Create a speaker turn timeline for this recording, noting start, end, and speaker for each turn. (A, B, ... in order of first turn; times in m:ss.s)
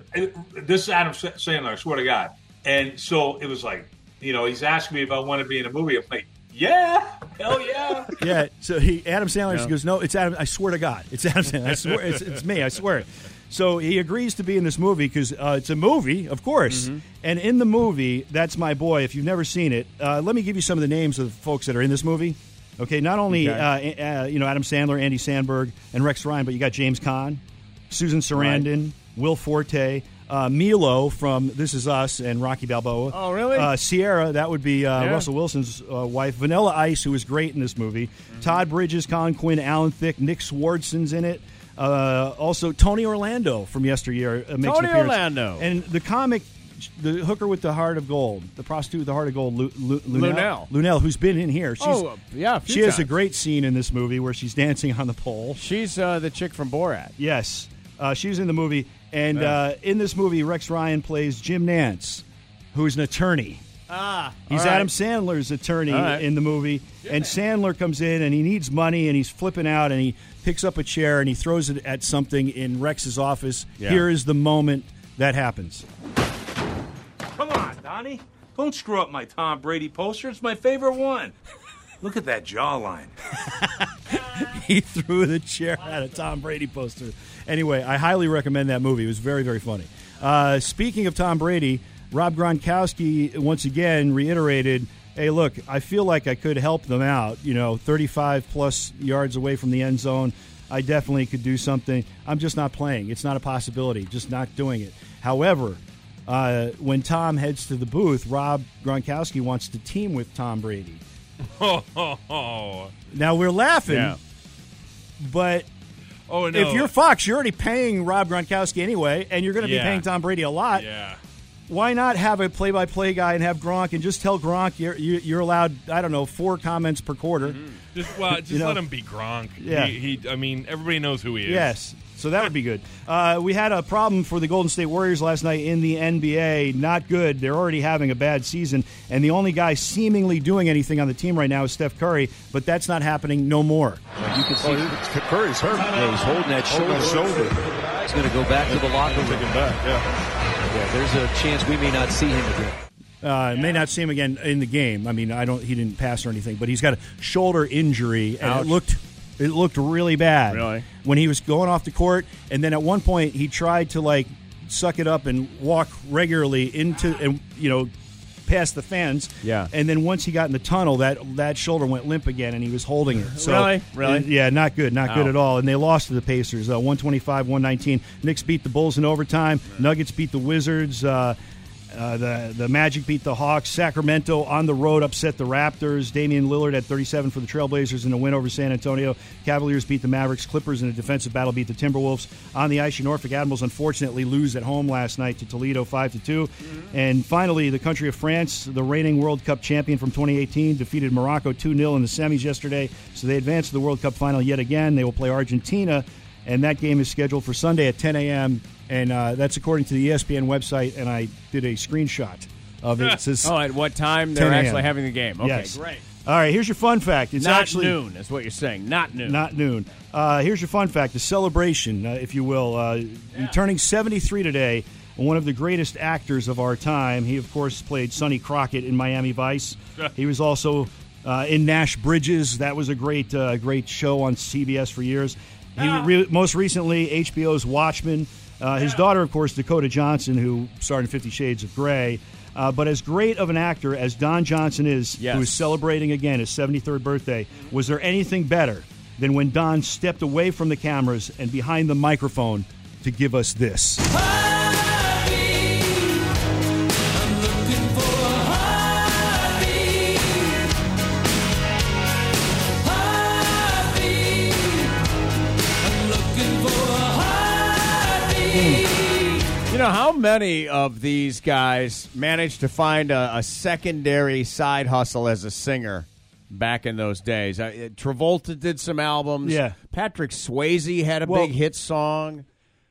0:00.1-0:08.0 A
0:08.2-0:52.1 B
0:16.7-0:17.0 C
0:23.3-0:23.7 C
0:28.4-0:28.7 C
0:33.1-0:33.7 C
0:35.0-0:35.3 C
0:44.6-0:45.7 C
0:50.1-0:50.7 C
0:51.8-0:53.1 C
0:52.7-0:55.6 B
0:55.6-0:57.1 C
0:57.2-1:03.6 B
0:59.3-0:59.6 C
1:03.9-1:04.9 C
1:04.5-1:15.9 B
1:05.9-1:06.3 C
1:07.0-1:07.3 C
1:13.8-1:14.0 C
1:17.4-1:21.3 B
1:22.0-1:51.0 B
1:51.4-1:52.9 D
1:53.1-1:54.2 B
1:53.9-1:54.2 C
1:55.2-1:55.7 B
1:56.3-1:56.9 D
1:56.5-2:00.9 B
1:59.6-2:00.1 D
2:00.7-2:01.2 D
2:01.7-2:07.6 B
2:08.0-2:11.8 D
2:08.3-2:08.8 B
2:09.6-2:10.0 B
2:11.5-2:24.1 B
2:24.2-2:29.8 E
2:30.7-2:32.8 E
2:33.2-2:47.9 B
2:38.4-2:38.8 C
2:40.5-2:40.9 C
2:48.5-3:01.4 B
2:49.4-2:49.7 C
2:53.4-2:54.3 C
2:55.1-2:55.3 C
3:01.9-3:33.6 B
3:33.4-3:36.0 C
3:34.3-3:38.0 B
3:37.4-3:39.4 C
3:39.2-4:14.0 B
4:05.2-4:05.7 C
4:28.5-4:28.9 B
4:29.7-4:42.4 C
4:39.4-4:39.8 B
4:41.2-4:41.6 B